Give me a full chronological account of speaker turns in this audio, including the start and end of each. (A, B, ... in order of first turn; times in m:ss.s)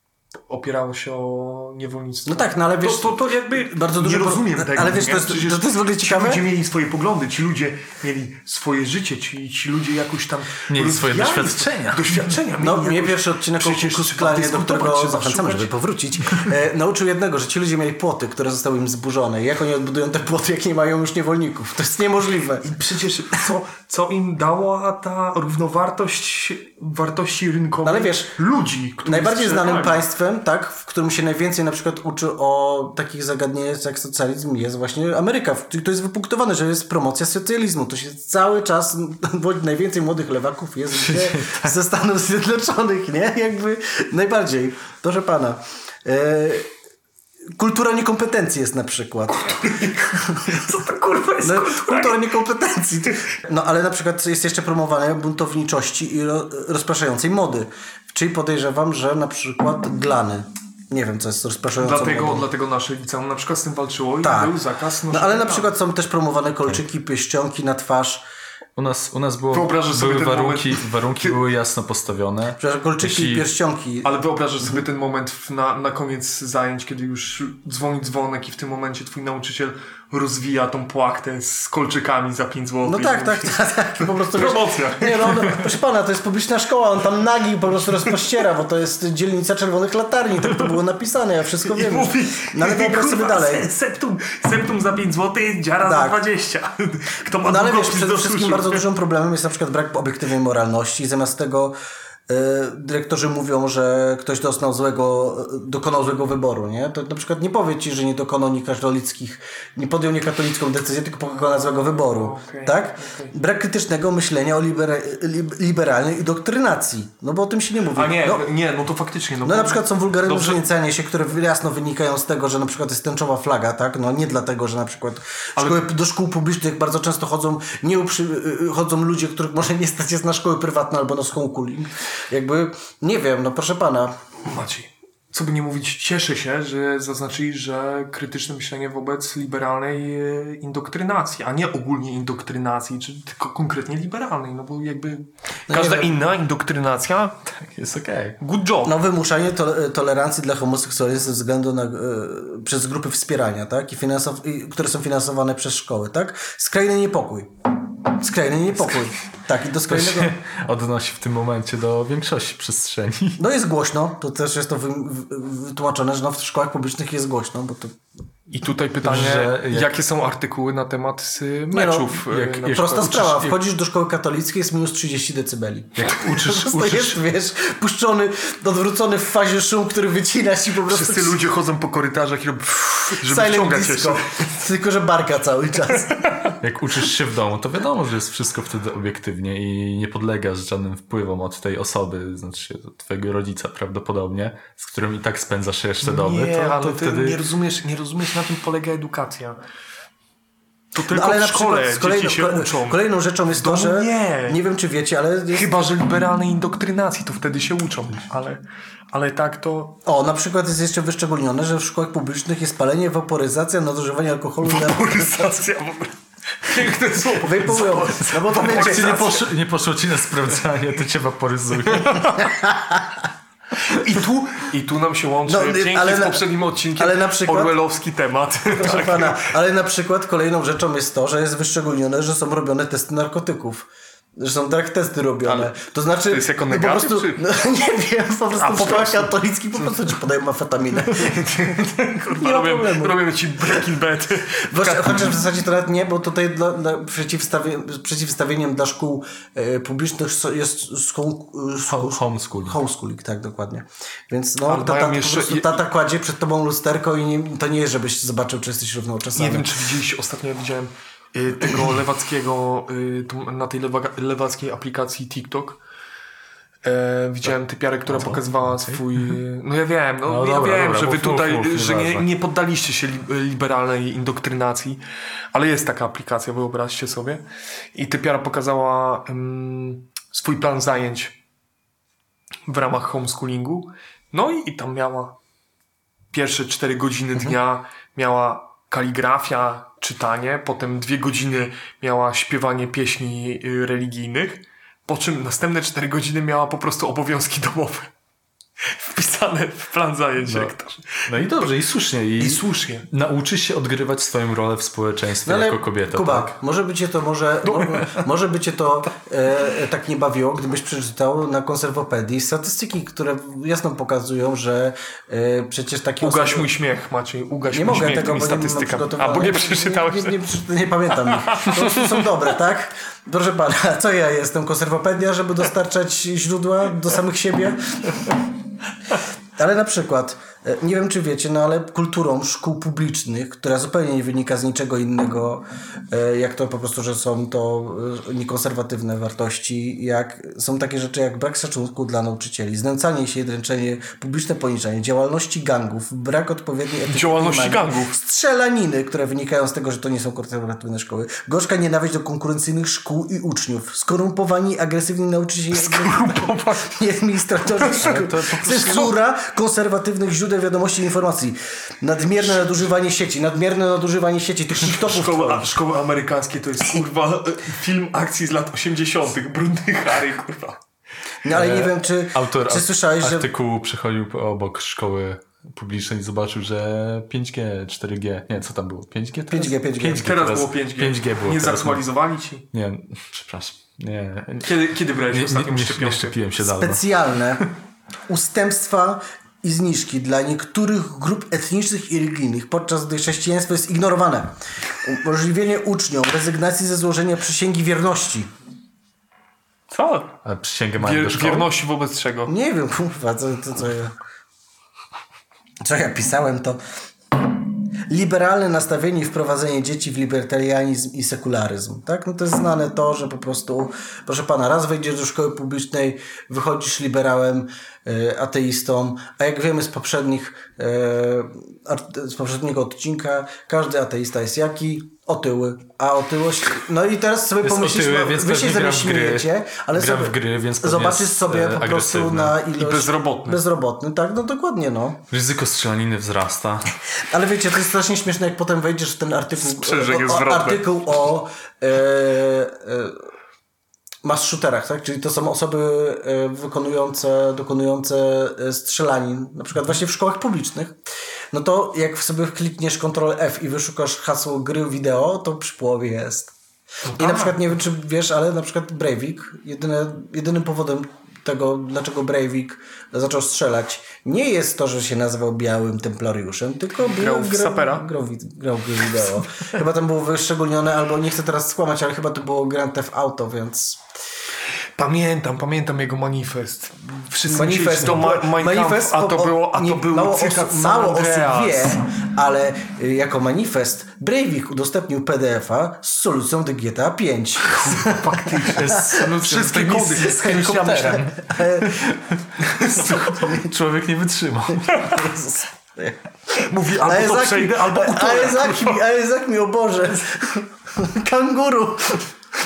0:00.5-0:15.7 A
0:02.2-0:06.4 B
0:10.7-0:12.1 C
0:12.6-0:22.7 B
0:22.6-0:30.0 A
0:27.8-0:28.3 B
0:29.0-0:46.7 B
0:41.0-0:41.7 C
0:47.6-0:50.6 B
0:49.3-0:52.3 A
0:51.4-1:02.4 B
1:01.8-1:05.7 A
1:04.2-1:04.5 B
1:05.1-1:08.2 B
1:08.8-1:13.4 C
1:09.5-1:11.4 A
1:12.6-1:14.8 B
1:14.0-1:25.6 A
1:22.8-1:33.7 B
1:31.6-1:38.8 A
1:35.8-1:36.2 B
1:37.4-1:41.7 B
1:42.3-1:58.4 B
1:51.9-1:53.3 A
1:57.9-2:00.6 A
1:59.4-2:14.1 B
2:05.6-2:05.8 A
2:14.4-2:27.4 A
2:25.7-2:26.1 B
2:27.5-2:28.4 C
2:28.4-2:28.9 A
2:28.8-2:40.3 B
2:39.9-2:43.4 C
2:43.4-2:48.0 B
2:48.5-2:53.1 A
2:49.0-2:49.9 C
2:51.7-3:01.4 B
2:52.3-2:53.6 C
2:56.0-2:57.2 C
3:00.9-3:04.5 A
3:03.2-3:06.2 B
3:06.6-3:17.4 C
3:16.0-3:19.6 A
3:20.9-3:24.6 A
3:21.1-3:25.7 B
3:25.5-3:30.0 A
3:30.0-3:35.6 B
3:34.6-3:39.2 A
3:37.4-3:39.5 B
3:38.5-3:42.3 C
3:42.4-3:43.0 B
3:43.8-3:49.5 A
3:45.4-3:47.7 B
3:48.7-4:03.8 B
3:55.5-3:57.4 A
3:58.5-3:59.3 A
4:01.1-4:05.4 A
4:04.7-4:19.7 B
4:11.9-4:12.8 C
4:14.6-4:15.8 A
4:19.4-4:25.8 A
4:26.8-4:35.0 A
4:28.1-4:29.3 C
4:30.3-4:32.3 C
4:35.5-4:37.4 A
4:37.9-4:41.3 A
4:42.7-4:45.3 A
4:46.3-4:58.1 A
4:58.8-5:01.7 A
5:00.4-5:00.7 C
5:01.3-5:06.5 C
5:02.4-5:03.1 A
5:05.4-5:16.7 B
5:07.6-5:08.2 A
5:16.2-5:20.5 A
5:17.7-5:28.3 B
5:21.5-5:22.3 A
5:29.6-6:05.7 B
5:47.1-5:48.2 A
5:55.7-5:56.9 A
5:58.0-5:59.1 C
6:04.8-6:10.8 A
6:11.4-6:13.5 B
6:11.5-6:22.0 C
6:19.5-6:20.3 B
6:20.0-6:22.6 A
6:22.7-6:24.7 C
6:24.6-6:26.4 A
6:25.3-6:27.0 C
6:26.6-6:27.7 B
6:28.3-6:38.5 B
6:39.9-6:40.3 A
6:40.4-6:41.7 C
6:41.0-6:42.5 A
6:42.5-6:44.1 B
6:45.8-6:46.8 B
6:48.1-7:15.2 B
7:07.6-7:12.6 C
7:12.8-7:13.6 A
7:15.3-7:16.9 C
7:17.1-7:23.3 B
7:19.6-7:20.8 A
7:24.2-7:31.0 B
7:31.5-7:36.5 B
7:37.1-7:37.6 A
7:37.1-7:54.0 B
7:47.0-7:48.0 A
7:55.0-8:01.9 A
7:57.5-8:13.7 B
8:07.6-8:11.2 A
8:08.7-8:09.3 C
8:10.4-8:15.3 C
8:14.9-8:16.2 B
8:16.6-8:19.0 A
8:16.9-8:22.3 B